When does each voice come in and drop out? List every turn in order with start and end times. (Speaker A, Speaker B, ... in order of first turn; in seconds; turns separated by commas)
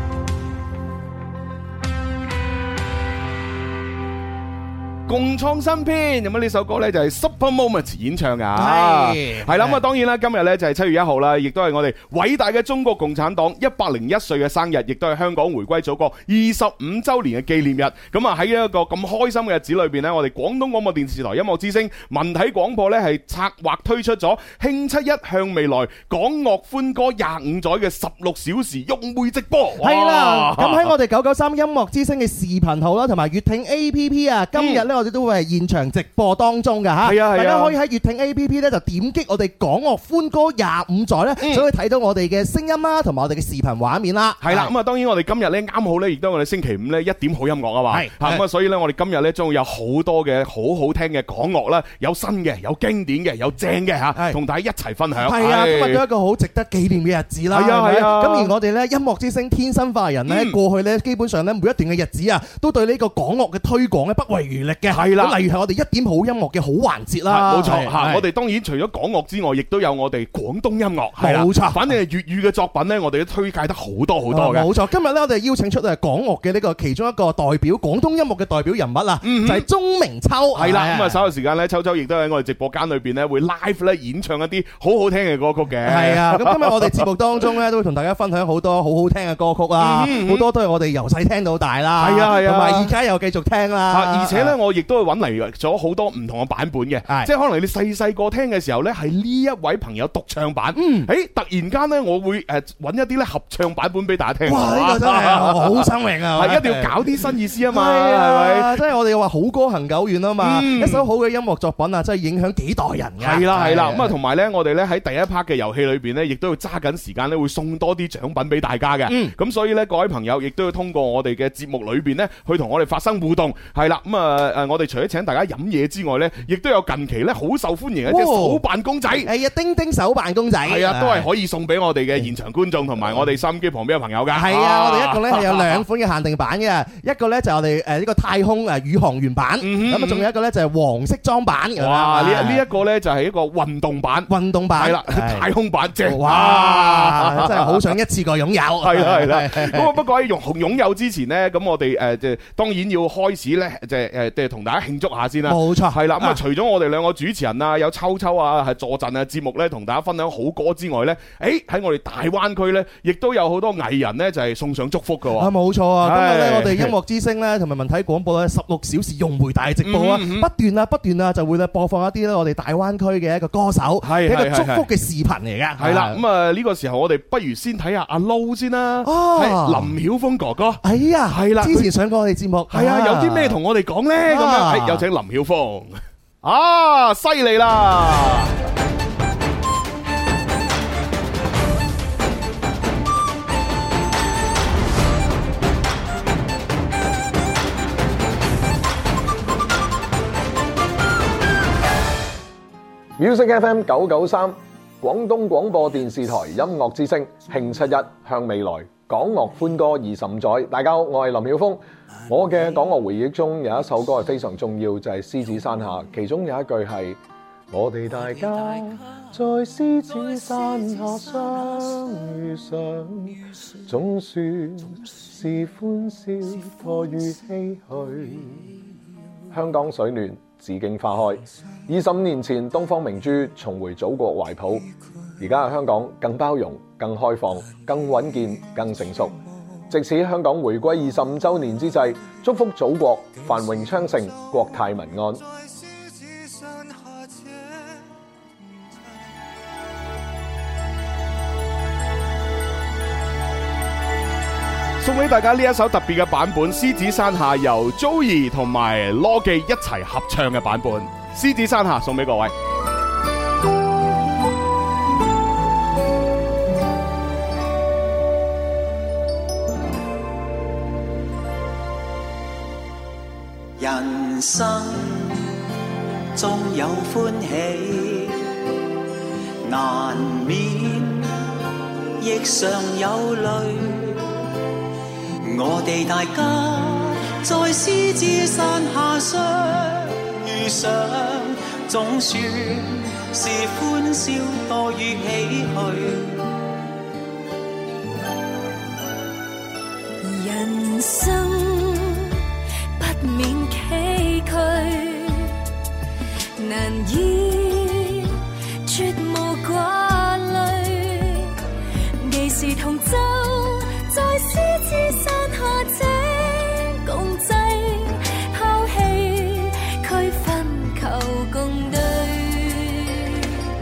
Speaker A: 5.1-30.9, Speaker B: 8.6-9.8, Speaker B: 29.8-44.7, Speaker A: 34.5-34.9, Speaker A: 37.0-37.8, Speaker A: 41.4-41.7, Speaker A: 44.4-56.0, Speaker B: 47.9-48.5, Speaker B: 55.2-68.2, Speaker A: 57.5-58.5, Speaker A: 60.3-60.6, Speaker A: 64.9-65.4, Speaker A: 67.3-74.7, Speaker B: 71.2-71.9, Speaker B: 74.3-81.2, Speaker A: 79.2-79.7, Speaker A: 80.5-87.1, Speaker B: 85.8-94.5, Speaker A: 89.8-90.5, Speaker A: 92.0-92.9, Speaker A: 93.9-108.8, Speaker B: 100.8-101.1, Speaker B: 104.5-114.1, Speaker A: 110.4-111.1, Speaker A: 113.2-129.3, Speaker B: 119.1-119.3, Speaker B: 128.1-128.6, Speaker B: 129.2-131.3, Speaker A: 130.6-135.8, Speaker B: 134.3-142.6, Speaker A: 139.6-140.3, Speaker A: 141.8-148.0, Speaker B: 144.3-145.5, Speaker B: 146.0-149.9, Speaker A: 148.8-165.5, Speaker B: 155.5-156.4, Speaker B: 165.4-176.2, Speaker A: 166.0-166.9, Speaker A: 169.8-170.5, Speaker A: 174.0-174.9, Speaker A: 175.8-181.9, Speaker B: 179.0-179.9, Speaker B: 180.8-183.6, Speaker A: 182.7-188.6, Speaker B: 184.3-185.1, Speaker C: 203.2-217.2, Speaker C: 217.7-228.7, Speaker C: 229.5-234.9, Speaker C: 235.4-239.4, Speaker C: 239.9-245.4, Speaker A: 255.0-262.5, Speaker D: 273.8-275.5, Speaker D: 276.3-278.5, Speaker D: 279.6-281.4, Speaker D: 282.2-284.3, Speaker D: 285.4-296.4, Speaker E: 300.2-302.4, Speaker E: 303.0-305.6, Speaker E: 306.6-311.6, Speaker E: 312.2-323.4